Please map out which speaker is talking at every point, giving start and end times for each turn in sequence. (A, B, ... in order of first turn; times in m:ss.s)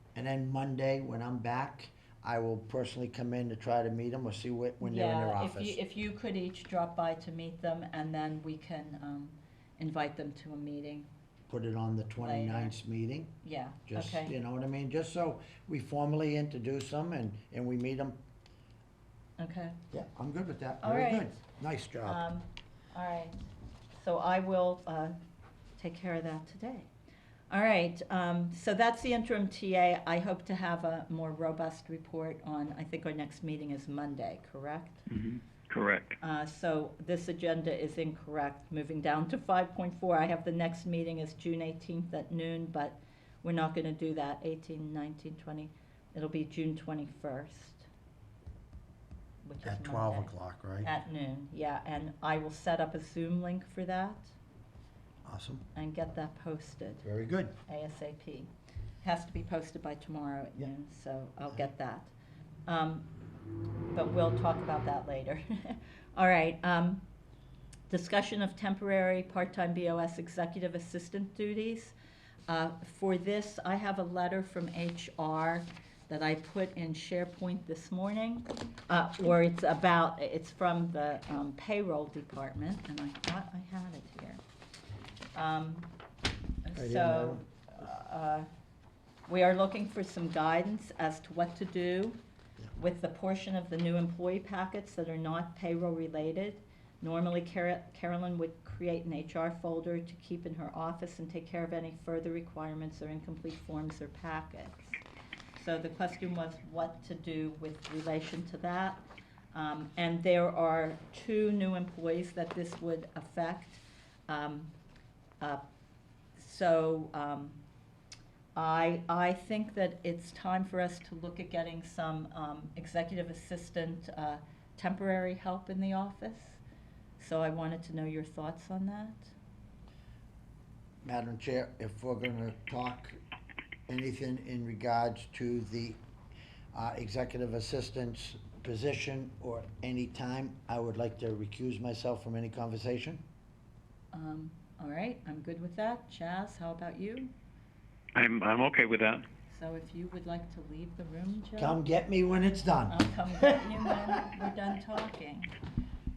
0:00.2-0:05.8 A
0:04.8-0:11.1 B
0:11.5-0:13.3 A
0:12.2-0:12.8 B
0:13.4-0:14.4 B
0:13.9-0:18.2 A
0:19.4-0:19.8 B
0:19.9-0:22.2 A
0:20.8-0:21.4 B
0:22.0-0:23.4 B
0:24.0-0:25.2 B
0:25.8-0:26.9 B
0:27.5-0:35.1 B
0:35.1-0:36.2 C
0:36.2-0:47.9 B
0:49.4-0:54.3 B
0:49.6-0:50.9 A
0:55.3-0:55.7 A
0:55.8-0:57.0 B
0:57.0-0:57.6 A
0:57.7-0:58.5 B
0:59.0-1:02.1 B
1:02.7-1:03.1 B
1:03.9-1:07.0 B
1:07.9-1:11.9 B
1:12.5-1:24.4 B
1:25.4-1:25.9 B
1:26.6-1:28.5 B
1:26.8-1:27.4 A
1:29.3-1:32.2 B
1:32.8-1:45.0 B
1:45.6-1:49.0 B
1:49.5-1:54.7 B
1:56.4-1:57.6 B
1:58.6-2:06.6 B
2:07.2-2:09.3 B
2:11.0-2:13.2 A
2:13.9-2:16.0 A
2:16.7-2:23.2 A
2:24.1-2:27.3 B
2:28.2-2:29.2 C
2:29.5-2:31.8 B
2:31.6-2:34.2 A
2:32.9-2:35.5 B